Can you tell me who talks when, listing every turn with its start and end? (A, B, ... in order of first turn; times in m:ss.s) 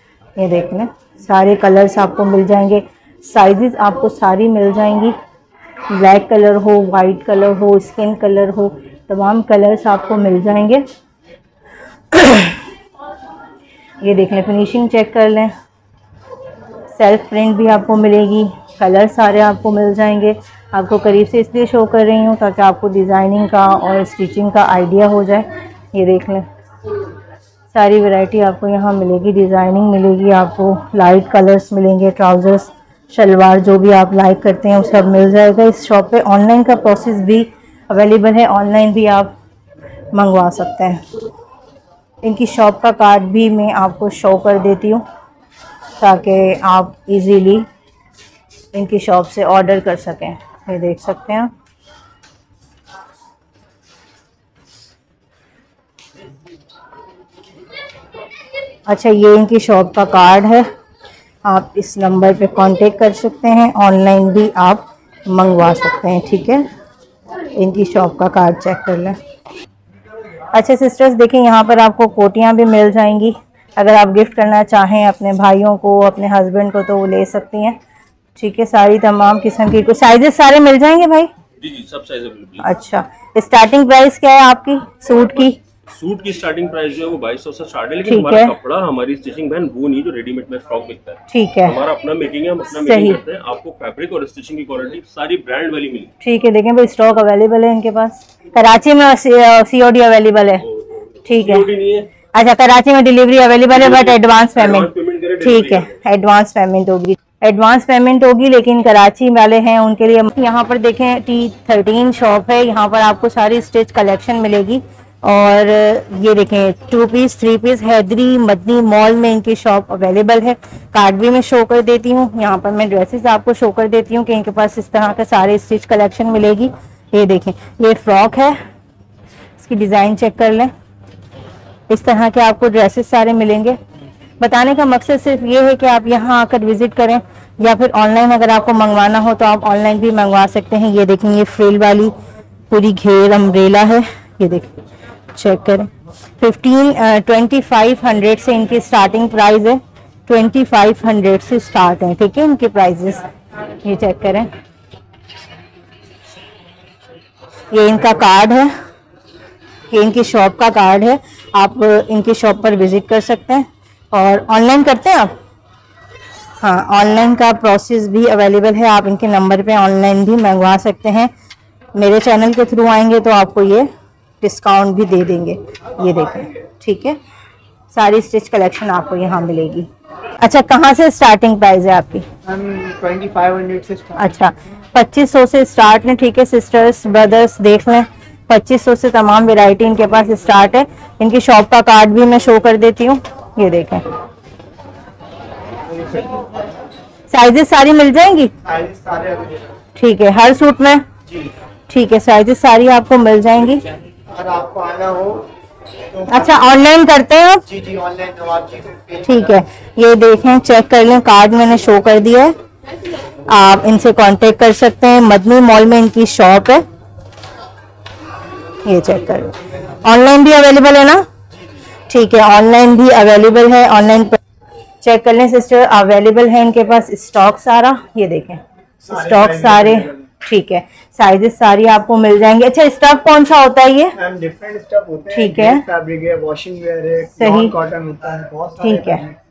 0:00.4-0:05.1 A
0:05.9-0:10.8 A
0:12.1-0:12.6 A
0:14.0-0:15.5 A
0:16.9-0:26.4 A
0:27.7-0:39.3 A
0:40.1-0:41.0 A
0:42.2-0:45.0 A
0:46.0-0:47.6 A
0:48.7-0:51.5 A
0:58.9-1:00.6 A
1:01.4-1:06.6 A
1:07.5-1:09.2 A
1:10.5-1:17.8 A
1:18.4-1:21.3 A
1:21.6-1:22.6 B
1:22.6-1:25.6 A
1:25.9-1:36.1 B
1:28.0-1:28.6 A
1:31.3-1:31.8 A
1:32.7-1:33.2 A
1:36.2-1:40.7 A
1:40.8-1:42.1 B
1:41.2-1:41.7 A
1:42.3-2:08.6 A
1:43.7-1:45.9 B
2:09.6-2:10.7 A
2:11.9-2:13.8 A
2:14.4-2:22.1 A
2:22.7-2:24.7 A
2:25.3-2:33.2 A
2:33.8-2:34.5 A
2:37.7-2:38.7 A
2:39.9-2:45.3 A
2:46.6-2:51.3 A
2:51.9-2:53.9 A
2:54.4-2:57.2 A
2:57.9-2:59.9 A
3:00.4-3:02.3 A
3:02.4-3:04.3 C
3:04.2-3:14.0 A
3:15.9-3:16.6 C
3:17.3-3:18.5 A
3:18.6-3:19.7 C
3:20.0-3:21.0 A
3:21.9-3:23.9 A
3:24.3-3:25.5 C
3:26.1-3:26.6 C
3:26.3-3:27.6 A
3:27.7-3:29.5 C
3:29.2-3:32.5 A
3:33.5-3:36.8 A
3:38.8-3:41.2 A
3:42.1-3:44.4 A
3:45.0-3:54.2 A
3:49.0-3:50.0 C
3:54.2-3:59.4 C
3:55.3-3:55.8 A
3:57.4-3:57.7 A
3:58.8-3:59.2 A